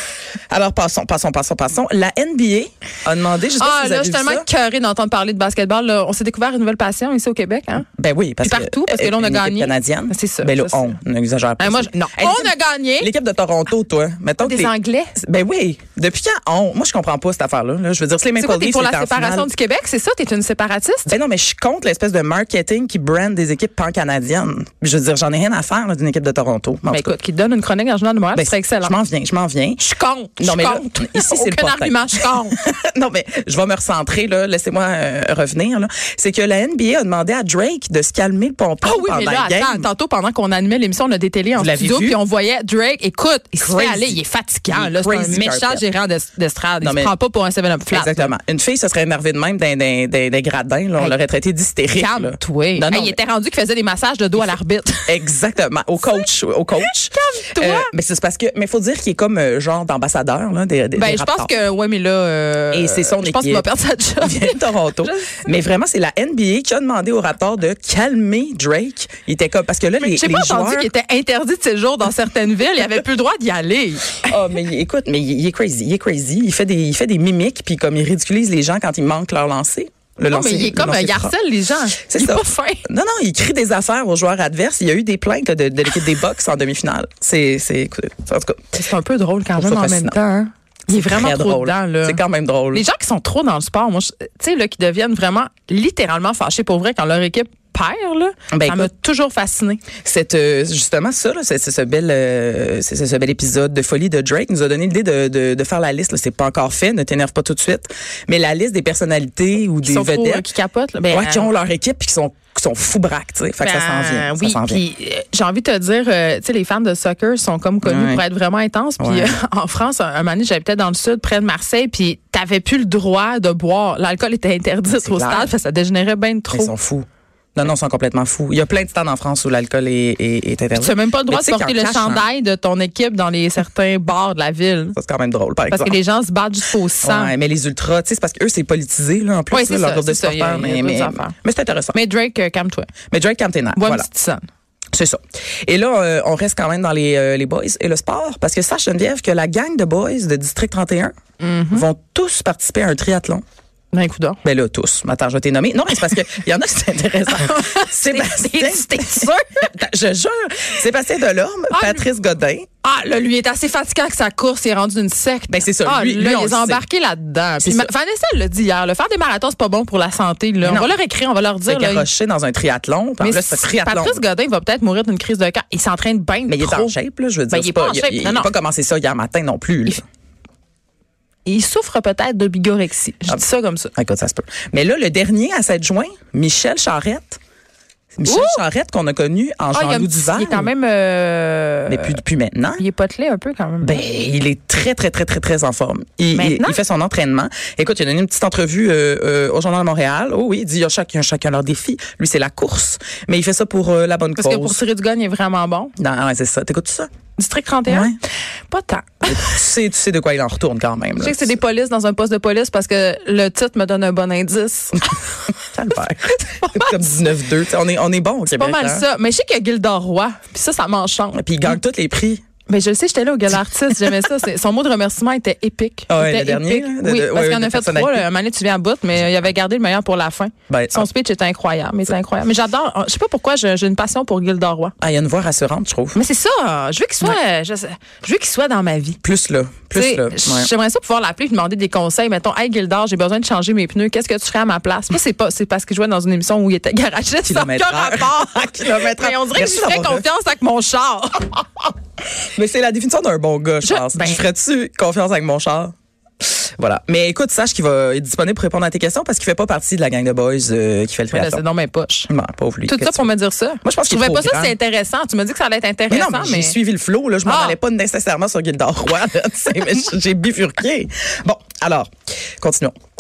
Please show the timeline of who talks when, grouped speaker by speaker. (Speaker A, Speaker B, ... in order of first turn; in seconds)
Speaker A: 0.5-4.5, 8.0-19.5, 21.1-27.1, 28.4-29.8, 30.4-39.9, 41.6-42.2, 43.6-44.2, 44.7-45.9, 46.8-47.1, 47.9-53.2, 55.1-61.5, 62.7-63.7, 64.2-70.9, 74.2-81.4, 82.0-88.8, 89.6-90.2, 90.9-92.8, 98.5-98.9, 100.0-110.5, 111.1-114.8, 117.8-118.2, 119.0-119.4, 124.9-125.5, 126.5-132.3, 135.0-135.9, 137.0-142.0, 143.1-144.1, 144.9-151.1, 151.7-153.4, 154.4-162.7, 165.5-166.8, 167.6-167.9, 170.6-171.0, 171.7-174.2, 176.5-180.0, 184.0-187.4, 188.2-190.7, 191.9-192.8, 193.8-204.8, 206.0-207.1, 207.9-208.2, 209.2-211.6, 215.7-219.1, 221.3-222.4, 226.1-228.2, 230.7-231.1, 235.0-236.2, 239.2-240.7, 247.4-250.3, 252.4-261.6, 262.3-263.3, 263.8-264.8, 266.1-272.9
Speaker B: 3.6-7.9, 8.4-11.0, 11.6-13.1, 14.4-15.1, 18.4-21.1, 26.9-28.9, 29.8-32.6, 38.8-48.4, 51.9-55.1, 57.1-57.9, 61.0-65.5, 70.0-74.3, 80.3-82.8, 88.8-92.2, 92.7-99.8, 109.8-111.5, 113.6-126.7, 130.8-135.0, 135.7-137.3, 139.5-141.3, 141.9-142.9, 143.8-144.5, 151.4-151.9, 153.9-154.4, 157.3-159.7, 161.7-162.1, 162.8-172.1, 173.2-176.9, 177.5-178.5, 181.4-183.9, 188.3-188.6, 189.7-192.2, 192.8-194.0, 196.3-196.8, 204.4-205.9, 207.4-208.2, 208.7-209.5, 211.2-215.3, 216.3-217.3, 218.5-221.4, 222.7-234.9, 236.1-239.2, 239.9-251.7, 253.8-254.4, 261.3-262.3, 262.9-266.8, 267.4-267.8